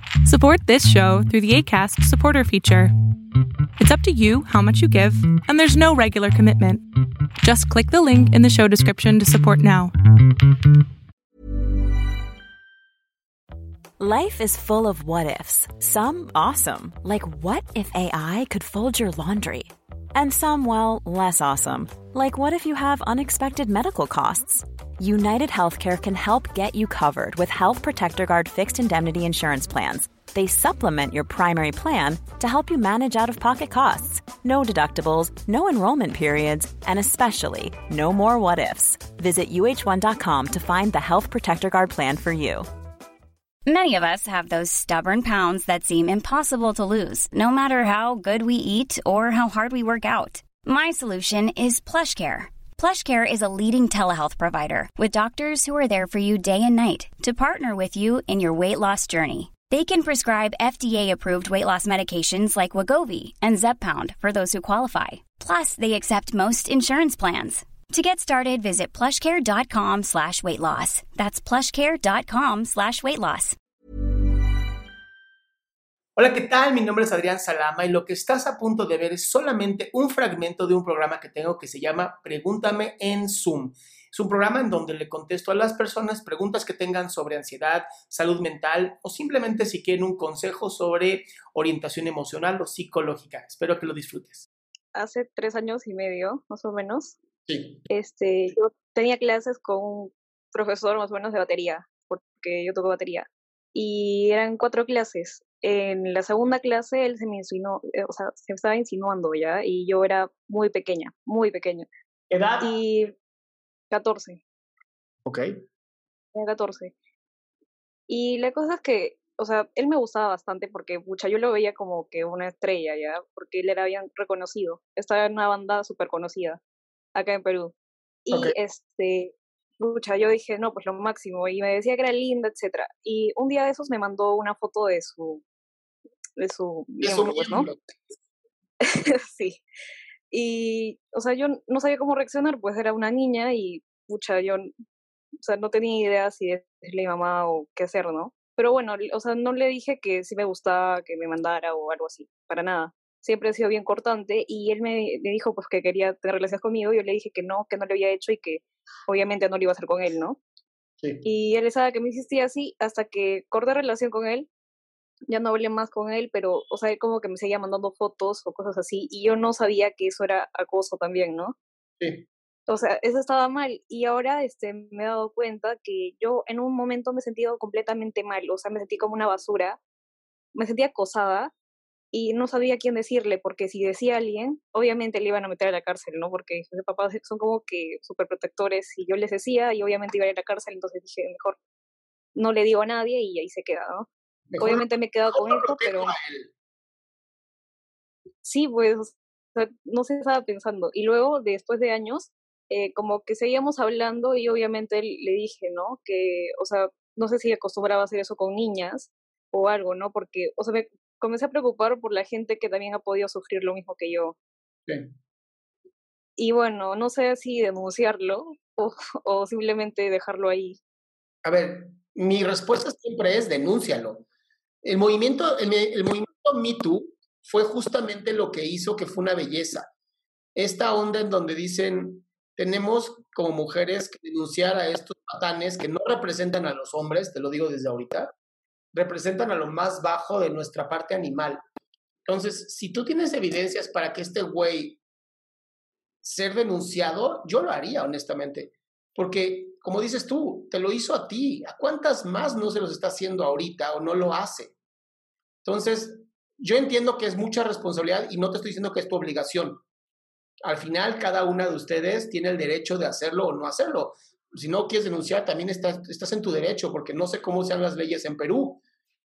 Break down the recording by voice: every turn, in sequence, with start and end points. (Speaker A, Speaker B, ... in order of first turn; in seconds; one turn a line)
Speaker A: 0.2-2.9
Speaker A: 3.8-6.8
Speaker A: 7.4-9.9
Speaker B: 14.0-42.6
Speaker C: 43.6-73.5
Speaker D: 76.2-94.5
Speaker E: 94.9-97.2
Speaker D: 97.5-97.8
Speaker E: 97.9-111.8
Speaker D: 112.3-112.6
Speaker E: 112.6-113.1
Speaker E: 113.9-114.4
Speaker E: 116.3-116.9
Speaker E: 118.1-126.6
Speaker E: 127.1-127.7
Speaker E: 128.2-135.4
Speaker E: 136.3-137.7
Speaker D: 137.0-137.8
Speaker E: 138.8-139.6
Speaker E: 140.3-144.7
Speaker E: 145.4-160.4
Speaker E: 161.2-164.5
Speaker E: 165.3-171.5
Speaker D: 172.0-172.2
Speaker E: 172.7-179.8
Speaker E: 180.5-181.5
Speaker E: 182.1-191.6
Speaker E: 192.3-194.1
Speaker D: 194.5-196.5
Speaker E: 194.6-196.1
Speaker E: 198.4-214.3
Speaker E: 216.4-220.8
Speaker D: 221.4-224.2
Speaker D: 224.8-229.9
Speaker D: 230.6-238.3
Speaker D: 238.9-241.6
Speaker D: 242.3-245.0
Speaker D: 246.2-254.7
Speaker D: 255.6-259.8
Speaker D: 260.6-268.8